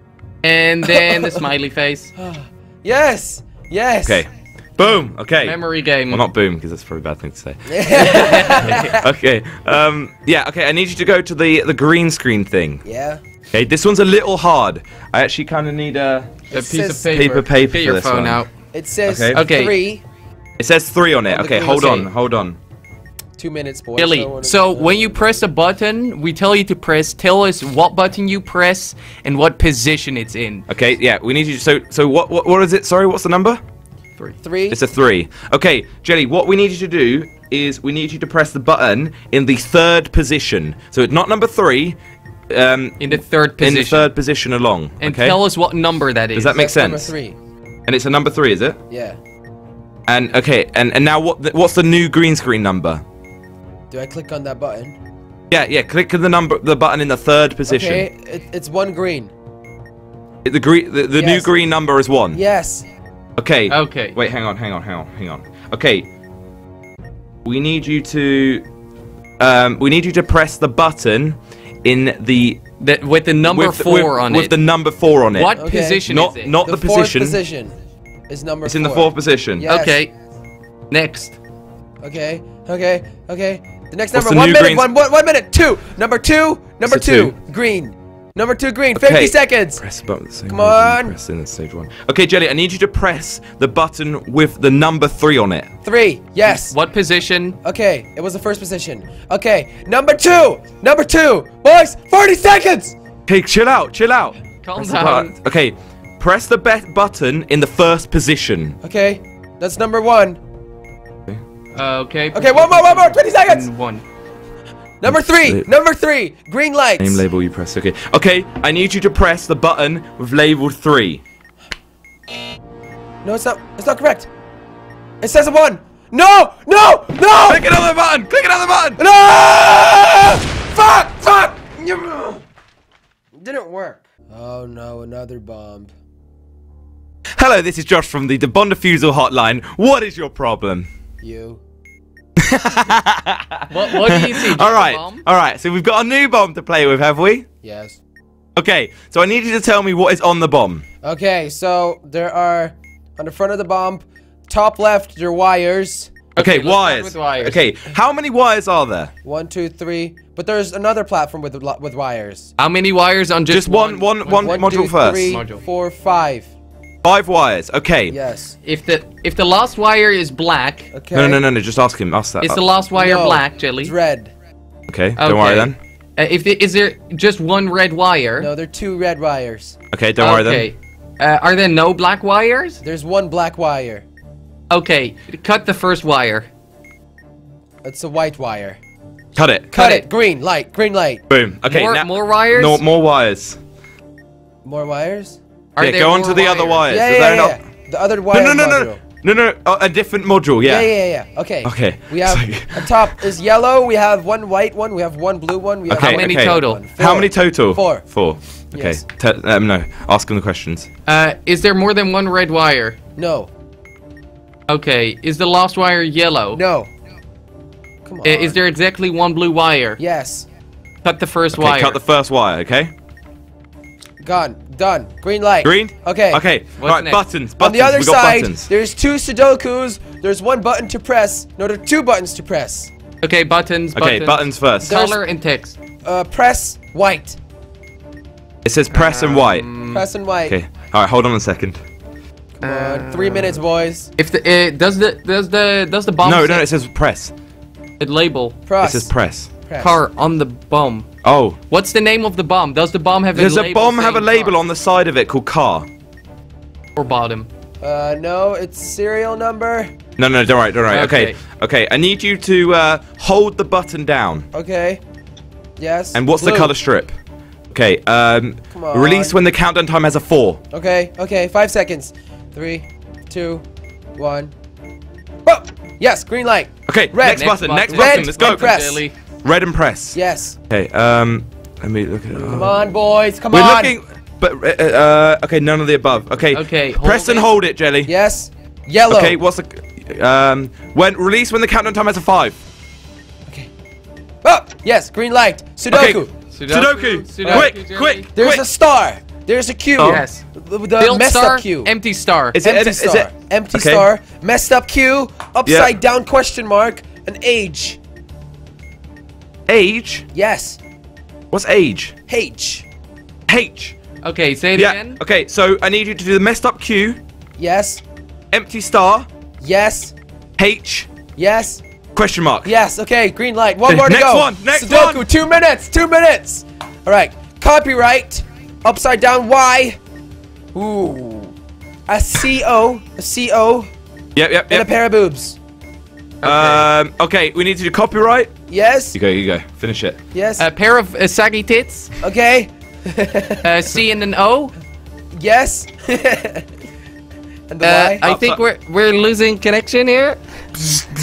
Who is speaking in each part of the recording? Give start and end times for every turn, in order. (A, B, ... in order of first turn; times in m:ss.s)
0:00.4-0:02.1 A
0:00.8-0:01.5 B
0:02.2-0:04.2 B
0:04.0-0:05.6 C
0:05.4-0:06.2 A
0:06.1-0:12.8 C
0:07.7-0:09.0 B
0:07.9-0:09.0 A
0:12.8-0:13.2 B
0:13.5-0:16.4 C
0:16.5-0:17.2 B
0:16.5-0:18.5 A
0:17.1-0:18.4 C
0:18.7-0:20.0 B
0:19.0-0:19.4 C
0:19.3-0:19.8 A
0:20.6-0:22.6 C
0:21.3-0:21.8 B
0:21.6-0:22.1 A
0:23.4-0:25.4 B
0:24.0-0:30.7 A
0:30.7-0:33.6 C
0:34.4-0:34.8 B
0:34.7-0:42.0 C
0:42.5-0:45.4 C
0:43.0-0:44.1 A
0:45.0-0:46.6 A
0:46.3-0:47.1 C
0:46.5-0:47.4 B
0:47.9-0:48.8 C
0:48.9-0:49.2 B
0:50.1-0:53.0 C
0:53.9-0:55.0 B
0:55.5-0:58.0 C
0:57.7-0:59.3 B
1:00.4-1:02.4 C
1:01.1-1:01.5 B
1:02.3-1:02.9 B
1:03.4-1:06.1 C
1:03.7-1:04.2 A
1:07.4-1:08.6 C
1:09.4-1:12.6 C
1:12.8-1:14.6 A
1:13.4-1:17.4 C
1:15.3-1:16.5 A
1:15.6-1:16.1 B
1:16.6-1:17.8 B
1:18.3-1:20.0 B
1:18.6-1:19.7 C
1:19.7-1:20.1 A
1:20.9-1:21.4 A
1:22.0-1:29.8 B
1:24.1-1:24.9 C
1:26.8-1:27.3 C
1:28.9-1:35.7 C
1:30.5-1:31.2 B
1:35.8-1:36.8 B
1:36.4-1:37.6 A
1:37.6-1:43.0 B
1:43.3-1:48.8 C
1:44.6-1:45.3 A
1:48.8-1:50.4 B
1:51.7-1:54.0 A
1:52.3-1:53.7 B
1:55.0-1:57.2 B
1:55.1-1:55.6 C
1:57.0-2:01.2 C
2:03.2-2:04.3 B
2:05.2-2:07.8 B
2:07.4-2:09.0 C
2:09.0-2:12.4 B
2:13.3-2:15.9 B
2:17.4-2:20.9 C
2:21.2-2:21.6 B
2:22.4-2:27.4 C
2:23.7-2:25.2 A
2:27.6-2:28.0 B
2:28.6-2:30.8 C
2:31.0-2:36.1 B
2:36.3-2:37.6 A
2:36.4-2:39.1 C
2:39.2-2:42.5 B
2:42.6-2:45.6 A
2:43.5-2:45.4 C
2:44.3-2:46.5 B
2:47.0-2:48.2 C
2:48.1-2:48.6 B
2:48.6-2:50.9 A
2:50.9-2:51.4 B
2:51.1-2:52.6 C
2:52.4-2:53.9 A
2:52.9-2:54.3 B
2:54.9-2:55.8 C
2:55.2-2:58.5 A
2:58.4-2:59.8 B
2:59.9-3:00.7 C
3:00.2-3:02.8 A
3:02.8-3:04.0 B
3:04.7-3:06.5 A
3:07.8-3:08.8 B
3:09.3-3:09.7 C
3:09.7-3:11.2 B
3:09.7-3:10.0 A
3:11.3-3:13.6 C
3:11.6-3:12.8 A
3:14.6-3:15.4 B
3:15.8-3:16.9 A
3:15.8-3:17.6 C
3:16.9-3:19.0 B
3:18.3-3:20.9 C
3:20.6-3:28.0 B
3:21.6-3:23.1 C
3:25.9-3:30.9 C
3:25.9-3:26.8 A
3:28.7-3:29.0 B
3:31.0-3:33.0 A
3:33.2-3:33.5 B
3:34.7-3:36.6 A
3:36.5-3:36.9 B
3:38.0-3:38.6 B
3:38.2-3:40.0 A
3:40.0-3:40.5 B
3:41.0-3:42.0 A
3:41.5-3:42.9 C
3:44.2-3:46.4 B
3:45.6-3:48.7 C
3:46.8-3:47.2 A
3:47.6-3:52.9 B
3:53.2-3:55.8 A
3:53.9-3:55.0 C
3:54.8-3:55.2 B
3:56.0-3:57.4 B
3:58.6-3:59.7 C
3:58.9-4:00.0 A
3:59.9-4:00.6 B
4:00.5-4:01.8 C
4:02.6-4:04.1 B
4:02.6-4:03.6 A
4:04.2-4:06.6 A
4:06.2-4:07.3 C
4:08.0-4:08.6 A
4:08.7-4:09.1 B
4:08.8-4:09.5 C
4:09.6-4:10.0 B
4:09.8-4:11.1 A
4:11.2-4:11.6 C
4:11.7-4:14.5 A
4:13.3-4:15.9 C
4:17.0-4:17.5 A
4:17.8-4:19.9 B
4:20.2-4:24.4 C
4:20.9-4:21.4 A
4:24.5-4:25.0 B
4:25.8-4:26.8 B
4:26.1-4:27.1 C
4:27.7-4:30.6 C
4:28.7-4:29.4 B
4:30.7-4:33.6 B
4:34.2-4:34.5 B
4:35.4-4:39.0 B
4:36.8-4:38.7 C
4:37.3-4:39.1 A
4:39.4-4:40.2 C
4:40.1-4:40.6 B
4:40.7-4:42.8 C
4:42.4-4:43.9 B
4:43.5-4:48.1 C
4:46.5-4:47.5 A
4:48.0-4:49.4 B
4:49.1-4:52.6 C
4:54.4-4:56.3 B
4:55.9-4:58.6 C
4:56.5-4:58.3 A
4:57.4-4:57.7 B
4:58.3-5:01.9 B
5:00.0-5:00.2 C
5:00.0-5:00.4 A
5:01.0-5:02.6 A
5:02.5-5:04.1 C
5:02.6-5:08.0 B
5:05.6-5:05.9 C
5:09.7-5:10.2 C
5:10.3-5:10.8 B
5:11.5-5:12.1 C
5:12.3-5:12.8 B
5:13.5-5:14.0 C
5:14.2-5:15.2 A
5:14.7-5:17.2 C
5:17.6-5:18.0 B
5:18.5-5:19.3 C
5:19.6-5:20.1 B
5:20.6-5:21.1 C
5:21.4-5:21.8 B
5:22.1-5:22.7 C
5:22.6-5:30.0 B
5:23.8-5:25.2 C
5:30.7-5:31.5 B
5:32.1-5:33.9 B
5:34.4-5:34.9 C
5:34.7-5:35.6 B
5:36.4-5:36.9 A
5:36.4-5:38.5 C
5:38.7-5:39.2 B
5:39.1-5:40.2 C
5:40.3-5:40.7 B
5:40.6-5:42.1 A
5:42.2-5:43.7 B
5:43.6-5:44.7 A
5:45.3-5:46.6 B
5:47.7-5:48.2 B
5:47.8-5:50.4 A
5:48.2-5:48.6 C